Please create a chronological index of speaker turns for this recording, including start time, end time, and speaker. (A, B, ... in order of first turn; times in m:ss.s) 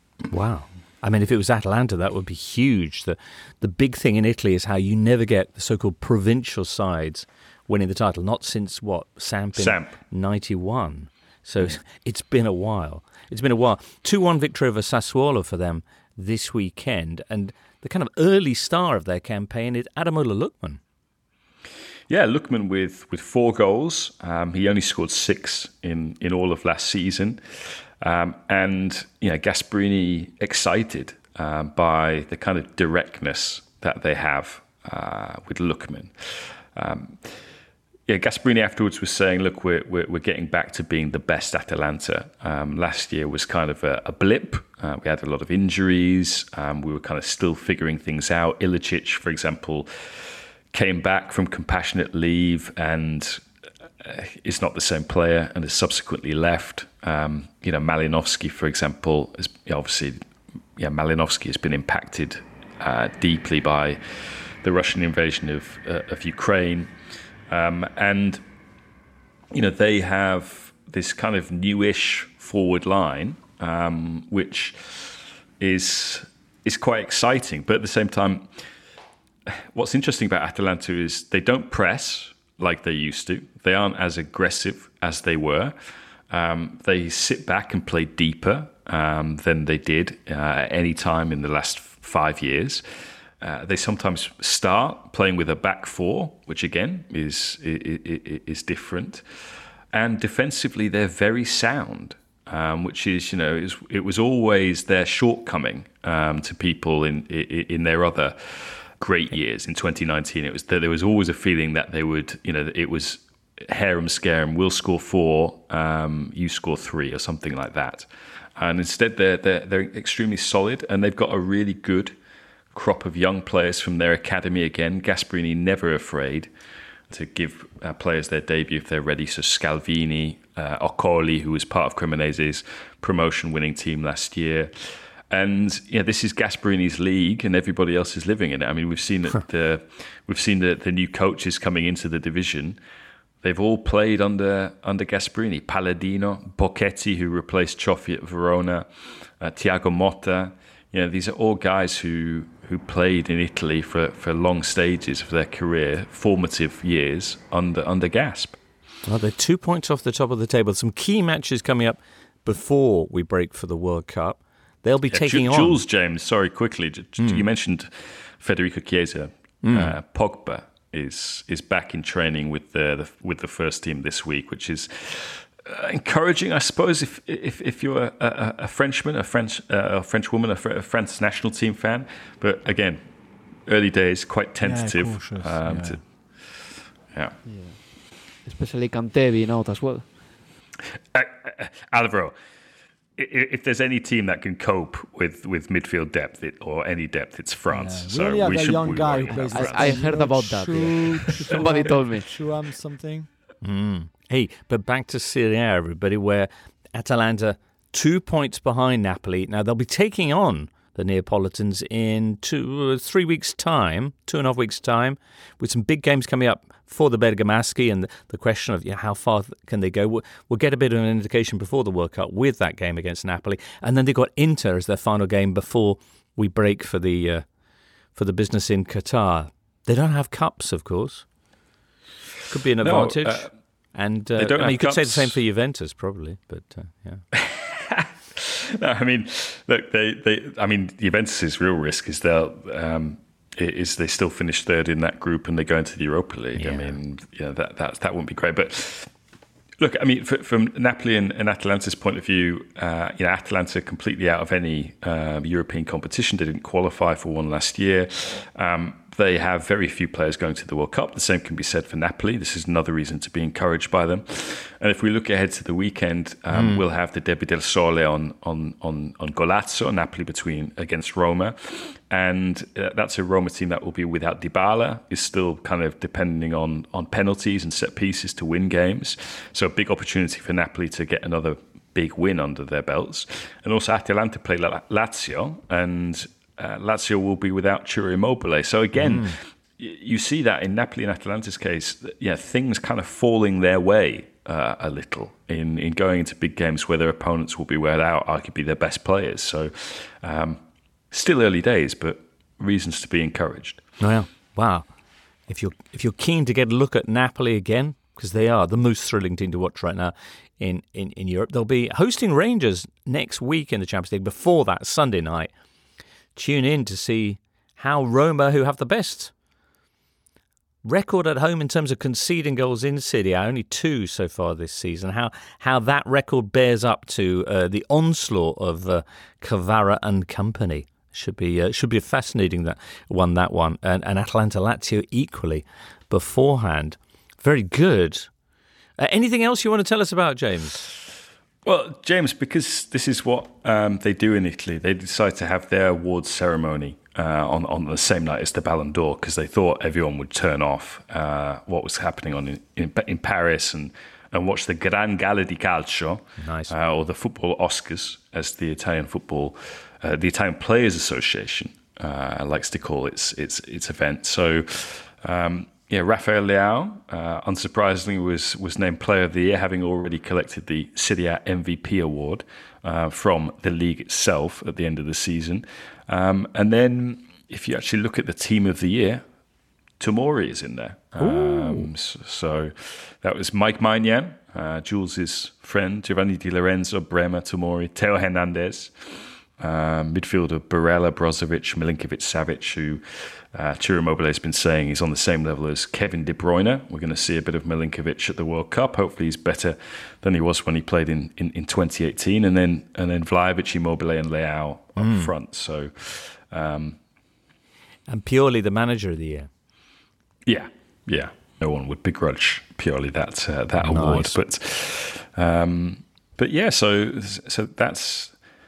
0:00.3-0:20.8 A
0:09.6-0:09.9 B
0:22.1-0:37.2 B
0:38.1-0:49.9 B
0:50.7-0:53.4 B
0:54.0-1:00.2 B
1:00.8-1:04.0 B
1:04.6-1:06.9 B
1:07.5-1:08.4 B
1:09.5-1:18.5 B
1:19.7-1:25.7 B
1:26.3-1:32.8 B
1:33.4-1:39.2 B
1:39.9-1:48.4 B
1:49.0-2:02.2 B
2:02.7-2:06.5 B
2:07.1-2:14.7 B
2:15.3-2:22.8 B
2:23.4-2:28.9 B
2:29.4-2:38.6 B
2:39.1-2:45.8 A
2:45.1-3:03.0 B
2:47.2-2:47.4 A
2:49.6-2:49.9 A
3:03.6-3:06.0 B
3:04.6-3:06.0 C
3:07.4-3:07.8 D
3:08.4-3:10.0 D
3:11.1-3:12.3 B
3:13.2-3:20.2 B
3:17.7-3:23.3 C
3:19.5-3:22.3 D
3:23.6-3:47.4 A
3:48.1-3:51.2 A
3:52.5-3:57.2 A
3:52.8-3:53.5 B
3:54.4-3:55.4 B
3:57.3-4:09.1 B
4:06.6-4:06.9 A
4:09.8-5:00.6 B
4:26.5-4:26.8 A
4:49.0-4:49.3 A
5:01.1-5:03.8 B
5:04.0-5:04.8 A
5:05.5-5:15.5 A
5:16.4-5:19.3 A
5:20.8-5:38.3 A
5:39.0-5:40.8 A
5:41.6-6:19.2 B
5:56.4-5:56.7 A
6:20.0-6:28.9 B
6:21.2-6:21.9 A
6:29.6-6:33.0 B
6:33.5-6:47.0 B
6:45.0-6:45.3 A
6:48.1-6:49.5 A
6:50.4-6:58.3 B
6:53.8-6:54.4 A